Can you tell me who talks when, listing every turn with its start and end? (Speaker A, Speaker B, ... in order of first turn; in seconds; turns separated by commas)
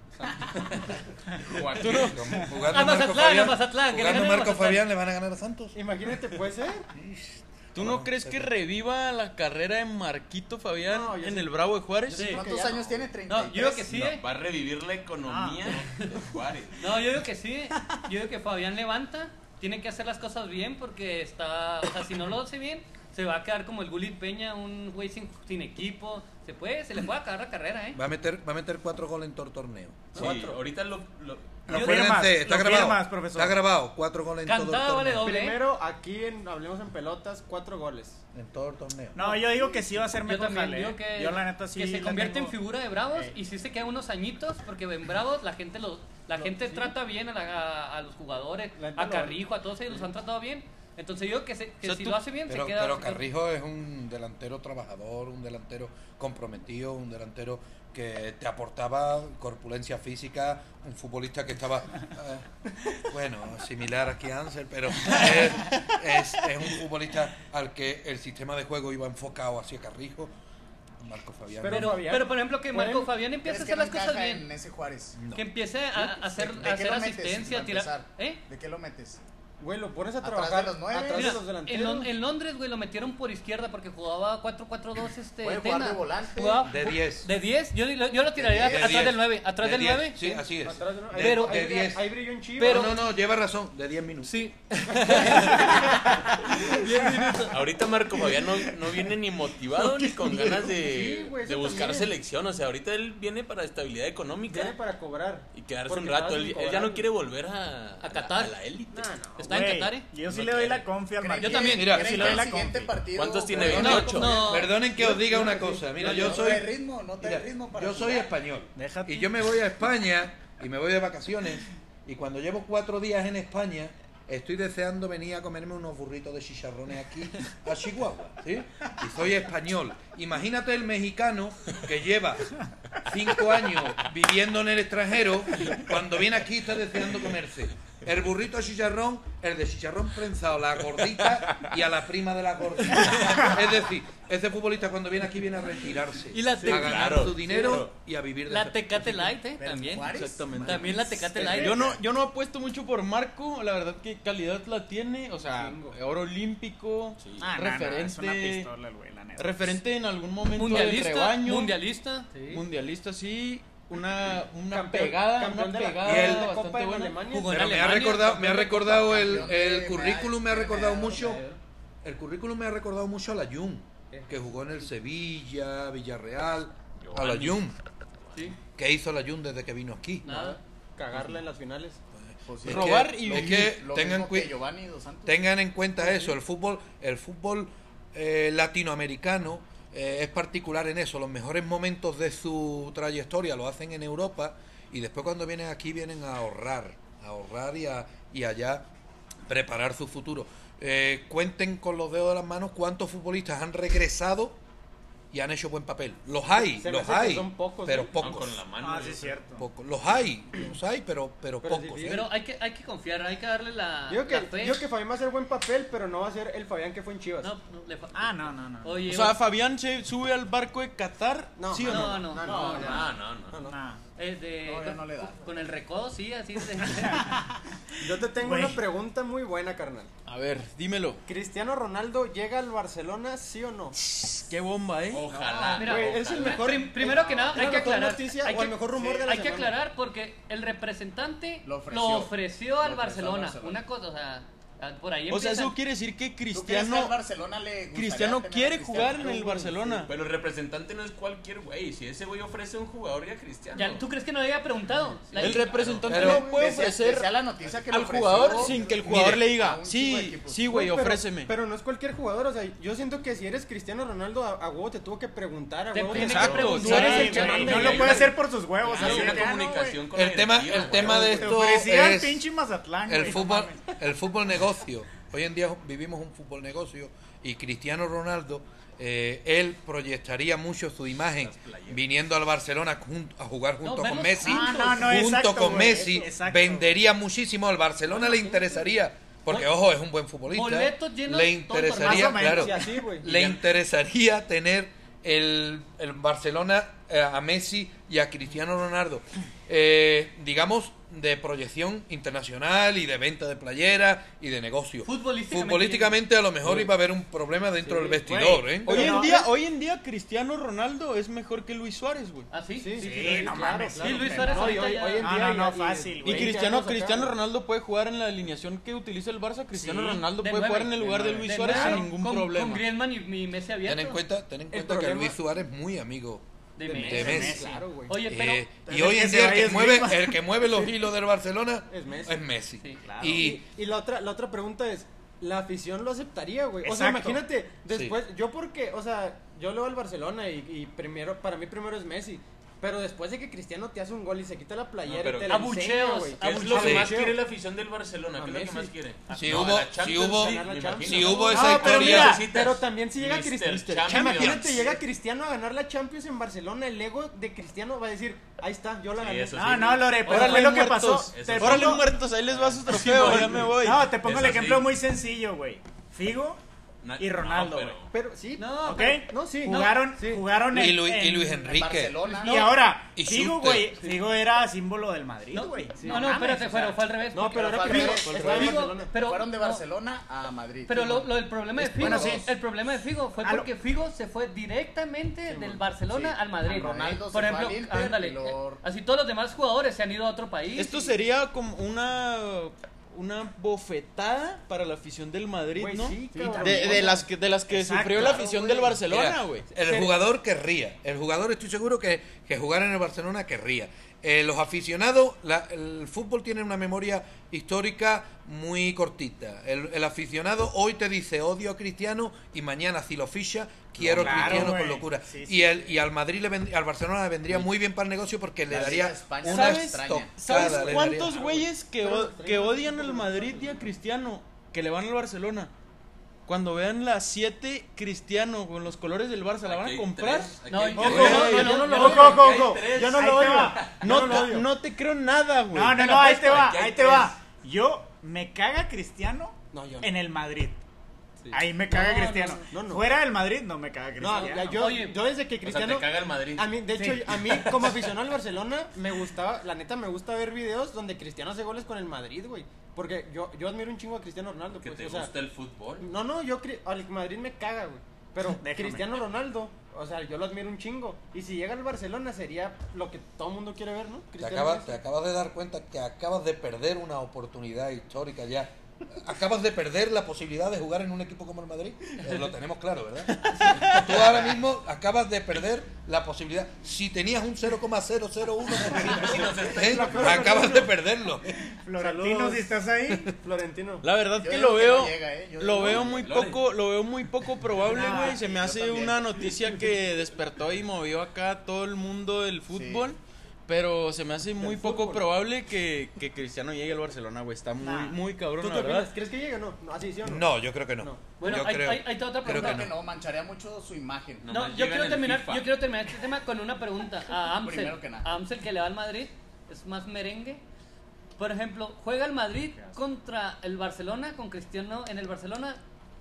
Speaker A: 0.1-0.9, Speaker B: 1.4-2.2, Speaker C: 1.8-5.8, Speaker D: 1.8-2.2, Speaker E: 2.6-4.9, Speaker A: 5.7-6.9, Speaker C: 6.9-8.5, Speaker D: 7.8-12.3, Speaker A: 10.8-11.5, Speaker E: 12.1-12.6, Speaker A: 12.1-12.9, Speaker F: 12.2-13.9, Speaker E: 13.3-14.2, Speaker B: 13.9-17.0, Speaker G: 15.2-15.8, Speaker E: 16.8-28.0, Speaker C: 27.9-30.5, Speaker B: 30.1-31.7, Speaker C: 31.7-35.3, Speaker E: 31.7-32.3, Speaker G: 31.7-33.6, Speaker E: 34.5-35.6, Speaker A: 35.2-38.2, Speaker C: 38.3-39.2, Speaker G: 39.1-42.6, Speaker E: 40.2-53.3, Speaker A: 48.8-49.4, Speaker D: 51.8-52.2, Speaker C: 52.5-70.3, Speaker C: 71.0-72.0, Speaker A: 71.6-73.1, Speaker E: 71.7-74.5, Speaker F: 73.4-75.2, Speaker C: 75.2-75.5, Speaker E: 75.3-78.4, Speaker F: 75.9-79.2, Speaker A: 79.6-82.1, Speaker F: 80.2-81.5, Speaker E: 81.1-90.4, Speaker F: 85.4-86.6, Speaker C: 86.6-87.3, Speaker F: 88.4-89.1, Speaker C: 88.5-92.0, Speaker A: 90.6-92.9, Speaker E: 91.1-91.8, Speaker E: 92.6-93.0, Speaker C: 92.6-94.4, Speaker E: 94.2-97.6, Speaker B: 97.5-104.8, Speaker A: 100.8-102.1, Speaker A: 104.5-107.1, Speaker B: 105.5-109.2, Speaker E: 108.0-108.6, Speaker A: 108.9-109.6, Speaker E: 109.4-110.1, Speaker G: 109.5-113.0, Speaker B: 110.3-110.9, Speaker F: 111.1-118.3, Speaker E: 111.4-112.3, Speaker C: 111.7-112.3, Speaker B: 113.2-114.5, Speaker E: 113.6-114.8, Speaker C: 113.8-149.3, Speaker G: 118.8-119.3, Speaker E: 146.3-147.8, Speaker B: 146.6-147.9, Speaker E: 148.5-151.8, Speaker F: 149.6-152.0, Speaker D: 150.1-150.9, Speaker D: 151.4-158.7, Speaker A: 155.5-156.0, Speaker B: 157.2-157.5, Speaker G: 157.4-159.8, Speaker D: 159.4-161.8, Speaker E: 160.5-162.4, Speaker A: 162.3-162.6, Speaker D: 162.5-167.2, Speaker A: 164.7-167.6, Speaker C: 166.0-166.5, Speaker E: 167.3-169.3, Speaker C: 167.5-171.4, Speaker F: 169.1-171.5, Speaker C: 172.0-177.8, Speaker A: 174.1-174.5, Speaker B: 177.0-177.7, Speaker C: 178.8-180.3, Speaker E: 180.2-180.6, Speaker A: 180.3-182.0, Speaker C: 182.3-184.6, Speaker F: 182.5-185.4, Speaker D: 182.6-183.8, Speaker C: 185.3-198.9, Speaker C: 199.5-204.6, Speaker C: 205.3-208.6, Speaker A: 206.6-208.1, Speaker B: 208.2-209.4, Speaker G: 208.8-209.7, Speaker C: 209.6-212.3, Speaker A: 211.6-212.3, Speaker E: 212.1-214.8, Speaker A: 214.1-217.5, Speaker E: 217.4-219.4, Speaker G: 218.1-219.1, Speaker D: 219.1-222.4, Speaker A: 221.6-223.8, Speaker E: 221.8-223.0, Speaker F: 222.4-223.1, Speaker B: 222.6-223.6, Speaker G: 223.7-224.0, Speaker E: 224.2-227.4, Speaker F: 224.7-225.5, Speaker G: 226.9-228.8, Speaker A: 228.0-230.1, Speaker D: 230.3-231.2, Speaker A: 231.3-234.0, Speaker D: 234.0-235.3, Speaker B: 235.1-236.8, Speaker F: 235.4-235.8, Speaker E: 235.8-245.8, Speaker A: 235.8-239.8, Speaker F: 241.6-243.8, Speaker D: 245.3-247.2, Speaker F: 246.5-250.1, Speaker D: 247.9-250.1, Speaker B: 250.1-254.1, Speaker E: 253.8-255.7, Speaker B: 255.3-256.3, Speaker D: 255.4-257.3, Speaker C: 256.1-256.5, Speaker F: 256.1-260.6, Speaker D: 257.9-261.5, Speaker A: 258.6-258.9, Speaker A: 260.6-268.4, Speaker E: 265.9-268.2, Speaker D: 266.1-267.6, Speaker G: 266.6-270.0, Speaker B: 267.5-271.5, Speaker A: 269.0-269.4, Speaker C: 270.1-272.5, Speaker G: 271.0-273.9, Speaker C: 273.1-309.2, Speaker B: 281.3-282.0, Speaker E: 283.8-285.0, Speaker G: 284.4-286.9, Speaker A: 285.8-286.2, Speaker E: 288.3-288.6, Speaker E: 290.5-292.6, Speaker G: 292.0-292.8, Speaker A: 292.4-293.3, Speaker B: 293.3-293.6, Speaker E: 305.0-306.2, Speaker A: 307.8-309.3, Speaker G: 308.8-309.5, Speaker D: 308.9-312.5, Speaker E: 312.5-315.3, Speaker A: 312.8-317.4, Speaker G: 313.0-316.7, Speaker D: 316.2-322.9, Speaker G: 319.8-320.2, Speaker E: 320.3-324.2, Speaker G: 321.7-322.0, Speaker C: 323.8-326.4, Speaker A: 324.7-325.4, Speaker E: 326.8-328.7, Speaker A: 326.8-328.2, Speaker C: 327.1-327.6, Speaker G: 327.1-327.9, Speaker C: 328.2-333.6, Speaker G: 328.7-330.5, Speaker A: 331.9-332.4, Speaker E: 332.8-333.1, Speaker G: 333.0-333.5, Speaker A: 333.4-347.4, Speaker G: 336.8-337.4, Speaker C: 337.9-338.2, Speaker B: 345.0-345.8, Speaker E: 345.5-347.1, Speaker B: 346.4-355.0, Speaker C: 346.8-347.1, Speaker A: 348.4-348.9, Speaker C: 349.3-352.4, Speaker A: 350.3-359.9, Speaker G: 351.5-352.5, Speaker C: 354.1-354.9, Speaker B: 359.1-360.8, Speaker G: 359.5-362.1, Speaker D: 360.2-364.1, Speaker B: 361.3-363.7, Speaker G: 363.8-366.6, Speaker B: 364.2-364.9, Speaker B: 367.0-368.1, Speaker G: 367.2-368.0, Speaker A: 368.1-370.5, Speaker E: 368.6-370.1, Speaker G: 368.8-371.8, Speaker C: 370.7-372.2, Speaker F: 371.6-373.0, Speaker G: 372.4-376.9, Speaker C: 373.1-373.9, Speaker E: 375.5-379.9, Speaker A: 376.0-379.1, Speaker F: 377.5-382.5, Speaker E: 380.9-391.1, Speaker G: 381.9-382.5, Speaker G: 383.4-383.7, Speaker A: 385.5-386.3, Speaker F: 386.1-388.8, Speaker D: 390.8-399.7, Speaker A: 395.8-397.3, Speaker G: 396.4-397.0, Speaker G: 397.7-398.5, Speaker F: 398.1-399.0, Speaker C: 399.1-421.4, Speaker E: 399.8-400.1, Speaker G: 414.1-415.9, Speaker F: 418.7-420.6, Speaker D: 419.4-425.7, Speaker A: 420.6-423.9, Speaker D: 426.5-430.6, Speaker B: 429.6-433.9, Speaker E: 430.7-432.4, Speaker G: 431.0-433.9, Speaker A: 431.0-434.7, Speaker D: 431.1-431.6, Speaker D: 434.0-436.5, Speaker G: 435.7-440.8, Speaker B: 436.0-437.4, Speaker A: 439.7-440.1, Speaker G: 441.5-444.9, Speaker E: 441.9-442.7, Speaker A: 442.7-443.2, Speaker A: 444.2-455.3, Speaker E: 444.2-445.2, Speaker B: 445.6-446.8, Speaker G: 446.9-447.3, Speaker B: 447.8-448.1, Speaker B: 454.8-456.1, Speaker A: 456.0-465.0, Speaker G: 458.5-459.1, Speaker C: 464.4-481.5, Speaker B: 478.9-480.4, Speaker A: 479.4-480.9, Speaker G: 479.9-480.9, Speaker G: 481.7-483.3, Speaker A: 482.0-482.7, Speaker A: 483.4-484.1, Speaker D: 484.0-499.1, Speaker F: 484.4-486.4, Speaker B: 485.9-486.6, Speaker G: 487.9-488.4, Speaker F: 488.0-489.5, Speaker F: 492.7-493.1, Speaker A: 494.6-495.2, Speaker G: 497.8-498.2, Speaker A: 498.6-501.3, Speaker C: 500.2-502.9, Speaker E: 501.4-502.9, Speaker F: 502.4-504.5, Speaker B: 504.4-505.8, Speaker E: 504.5-510.6, Speaker F: 507.5-508.3, Speaker E: 511.4-515.8